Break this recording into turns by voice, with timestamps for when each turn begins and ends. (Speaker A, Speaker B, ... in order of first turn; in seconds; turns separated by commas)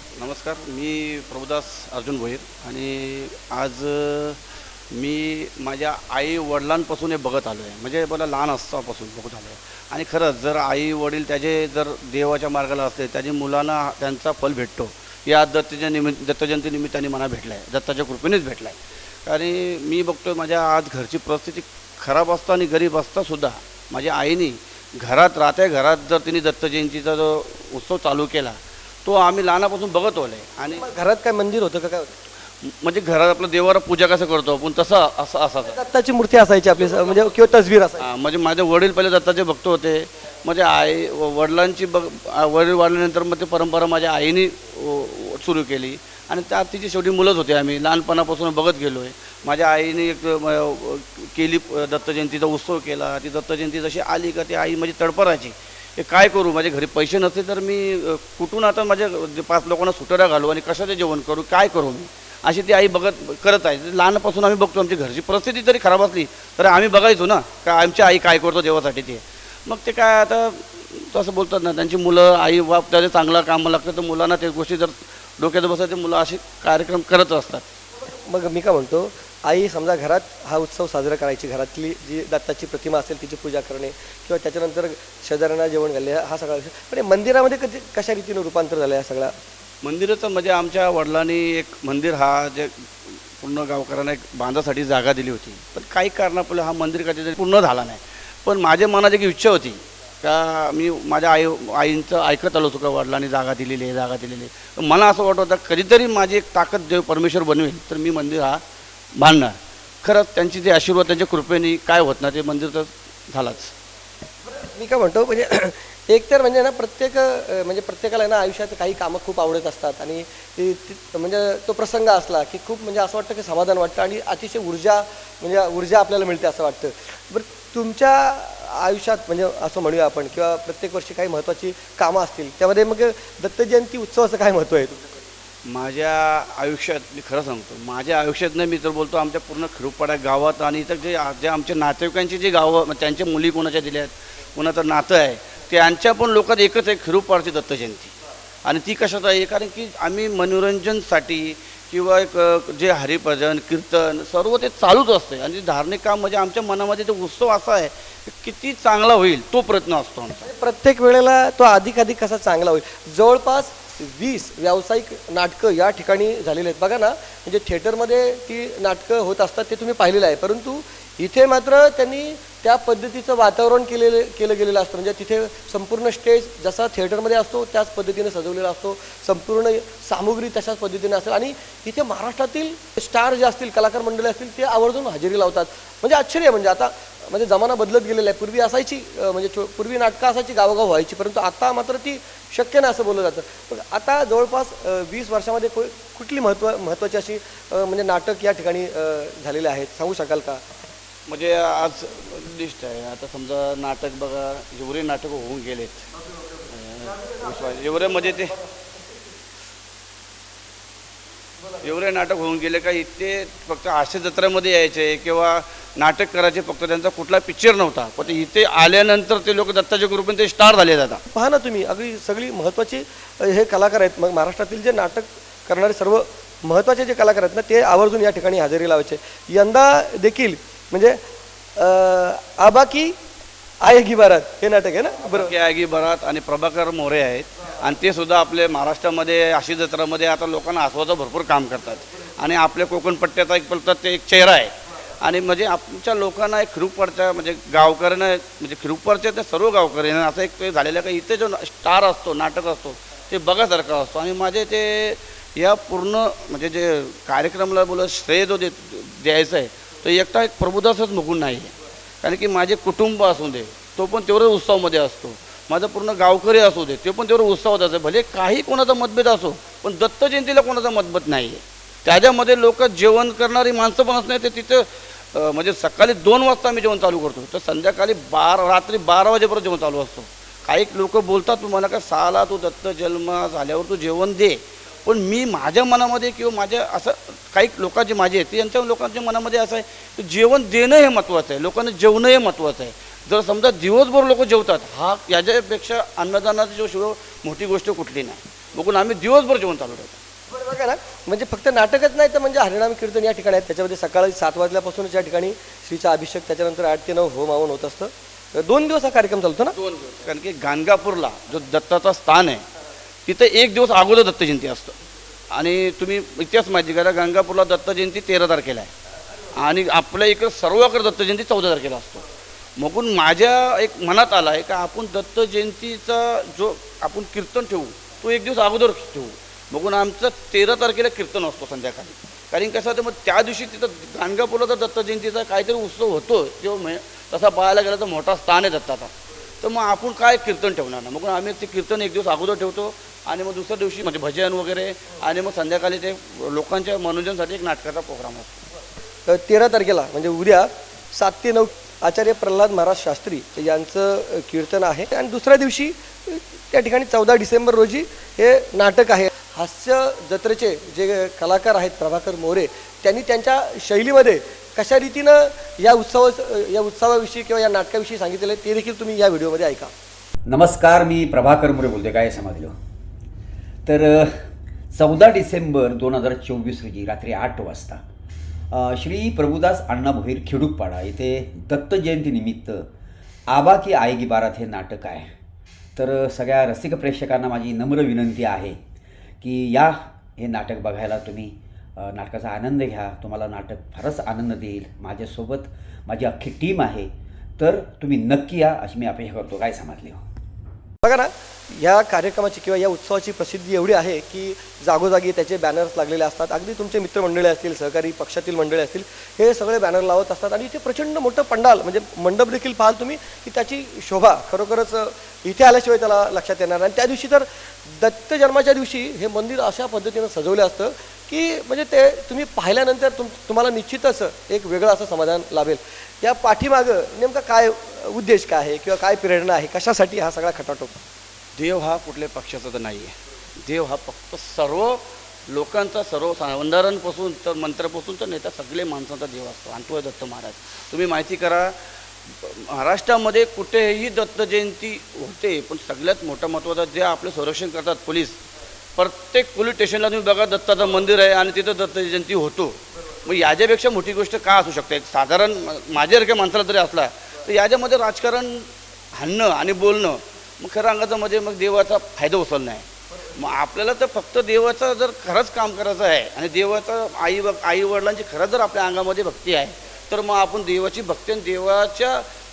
Speaker A: 0.2-4.4, Speaker A: 4.9-30.9, Speaker B: 30.7-32.1, Speaker A: 32.6-35.8, Speaker B: 35.6-38.0, Speaker A: 38.0-77.7, Speaker B: 78.0-89.3, Speaker A: 89.8-108.6, Speaker A: 109.2-113.7, Speaker B: 114.5-135.1, Speaker A: 135.6-160.5, Speaker B: 160.4-200.6, Speaker A: 201.3-206.1, Speaker A: 206.7-208.5, Speaker B: 207.2-208.5, Speaker A: 211.8-221.2, Speaker B: 221.3-231.2, Speaker B: 231.8-233.1, Speaker B: 233.8-235.5, Speaker A: 235.2-300.2, Speaker B: 300.5-309.8, Speaker A: 309.7-312.6, Speaker A: 313.2-315.0, Speaker A: 315.5-318.9, Speaker A: 319.5-322.2, Speaker A: 322.8-348.6, Speaker B: 349.3-369.9, Speaker C: 370.5-372.7, Speaker C: 373.9-374.3, Speaker C: 374.9-378.0, Speaker C: 378.7-382.9, Speaker C: 383.5-385.3, Speaker C: 385.9-388.8, Speaker C: 389.4-400.2, Speaker B: 401.0-430.9, Speaker A: 431.5-441.7, Speaker A: 442.4-448.4, Speaker A: 448.9-472.3